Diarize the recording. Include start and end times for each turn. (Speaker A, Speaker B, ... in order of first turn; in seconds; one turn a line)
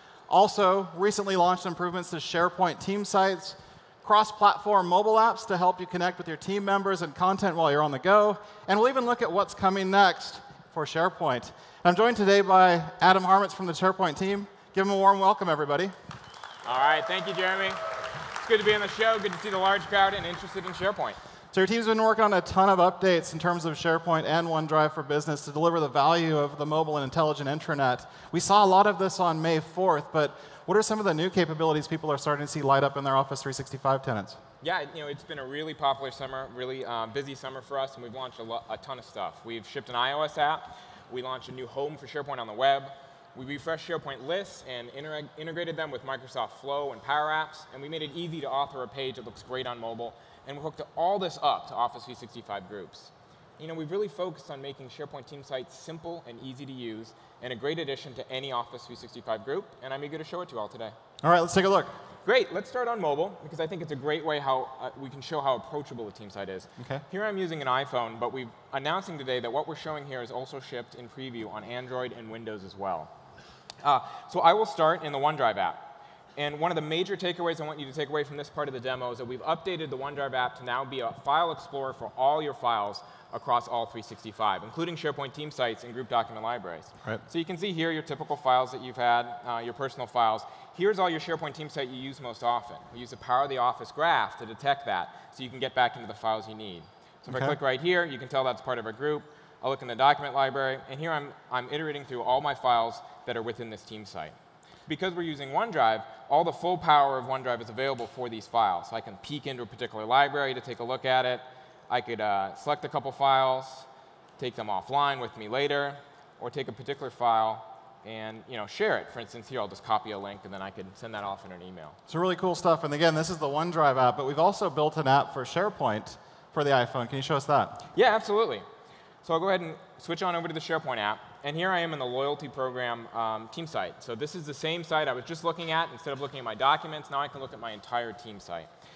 Speaker A: 0.3-15.9
Speaker B: 16.6-21.2
Speaker A: 21.5-34.4
Speaker B: 34.6-61.0
Speaker A: 61.2-61.9
Speaker B: 62.2-73.1
Speaker A: 66.8-67.0
Speaker B: 73.8-75.8
Speaker B: 76.3-104.3
Speaker A: 97.3-97.5
Speaker B: 104.9-113.9
Speaker B: 114.4-122.0
Speaker A: 122.1-127.8
Speaker B: 127.9-128.7
Speaker B: 129.2-138.7